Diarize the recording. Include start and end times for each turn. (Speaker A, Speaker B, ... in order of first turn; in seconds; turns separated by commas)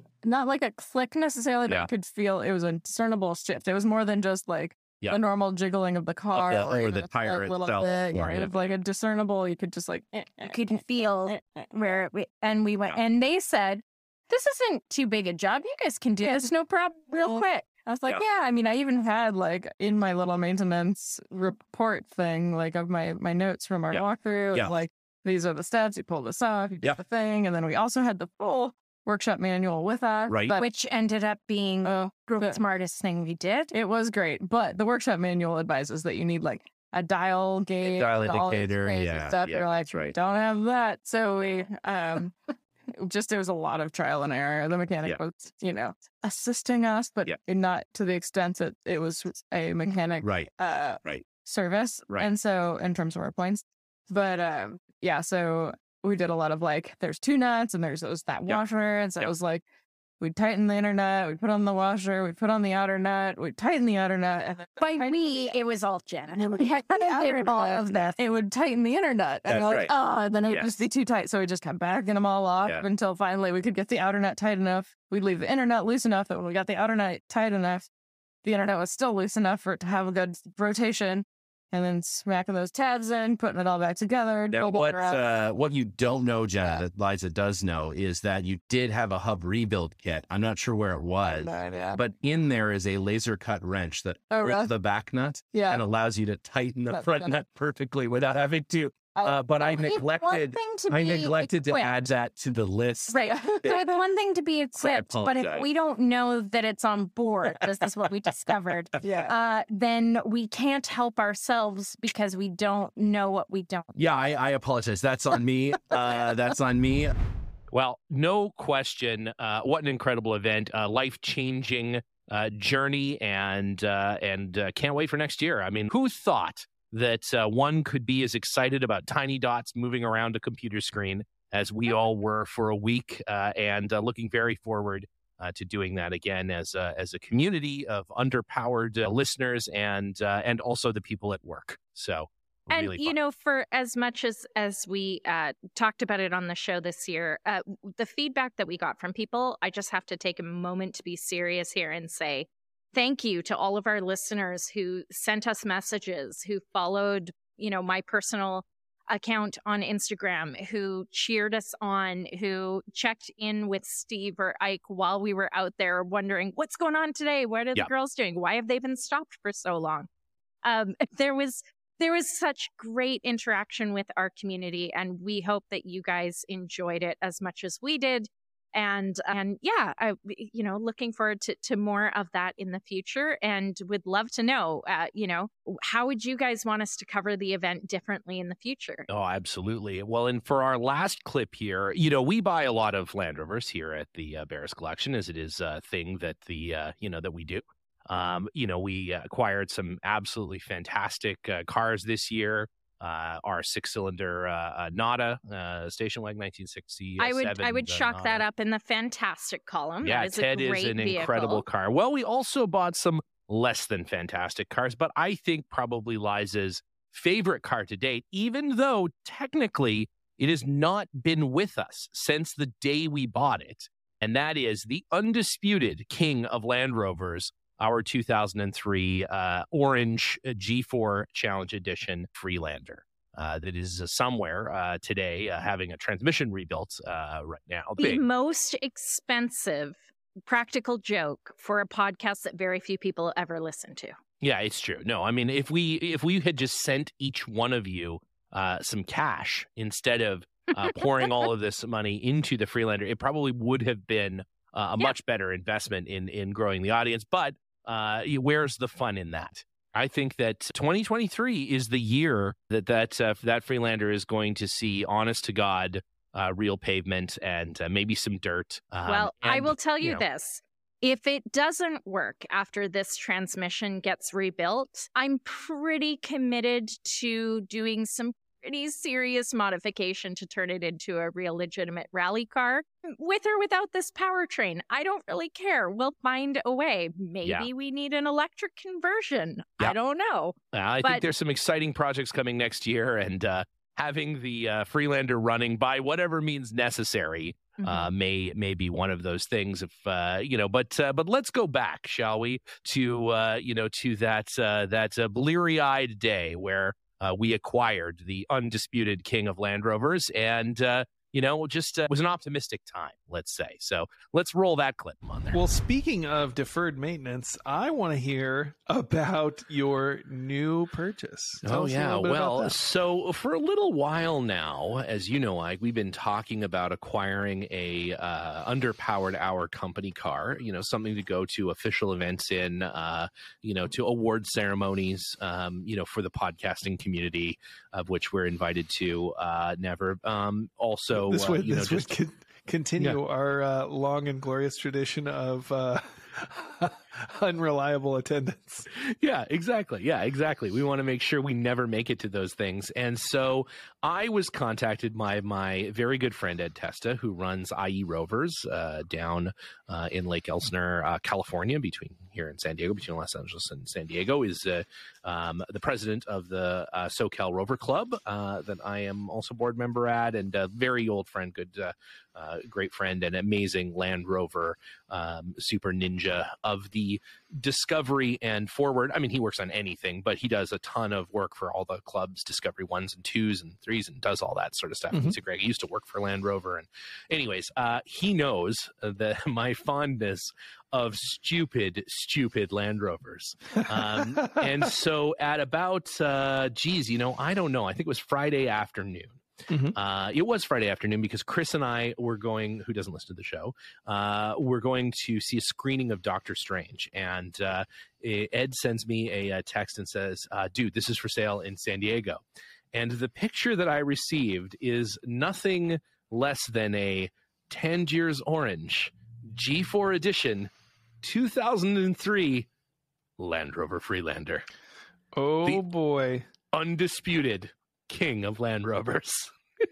Speaker A: 0.2-10.6, Speaker B: 6.3-8.6, Speaker C: 10.4-17.6, Speaker A: 17.2-30.7, Speaker B: 23.9-24.7, Speaker B: 30.3-30.6, Speaker C: 30.6-33.7, Speaker A: 31.8-32.6, Speaker A: 33.7-59.6, Speaker B: 37.8-40.1, Speaker B: 50.2-50.5, Speaker A: 60.2-65.1, Speaker C: 64.8-68.2, Speaker A: 66.7-77.9, Speaker B: 69.5-69.9, Speaker A: 78.4-85.2, Speaker B: 84.5-97.4, Speaker A: 91.3-92.0, Speaker A: 94.3-94.7, Speaker A: 95.5-95.8, Speaker A: 96.9-97.3, Speaker D: 97.3-102.3, Speaker A: 99.1-99.4, Speaker C: 100.0-101.5, Speaker B: 102.3-103.7, Speaker C: 103.1-113.9, Speaker A: 103.2-103.8, Speaker B: 104.8-105.7, Speaker A: 109.0-109.3, Speaker B: 113.9-117.1, Speaker D: 117.7-143.1, Speaker C: 142.7-170.1, Speaker C: 170.6-189.1, Speaker D: 189.1-208.4, Speaker C: 207.2-211.6, Speaker D: 210.0-238.2, Speaker C: 238.0-244.1, Speaker D: 244.4-270.2, Speaker C: 269.1-291.3, Speaker D: 290.7-315.6, Speaker C: 297.8-298.1, Speaker E: 315.5-322.8, Speaker D: 321.6-342.1, Speaker E: 341.1-348.9, Speaker D: 348.9-399.4, Speaker E: 385.1-385.4, Speaker E: 393.9-394.7, Speaker E: 399.7-399.9, Speaker D: 399.9-412.4, Speaker D: 412.9-420.7, Speaker D: 421.2-422.7, Speaker D: 423.4-424.6, Speaker E: 425.3-426.4, Speaker D: 426.7-429.5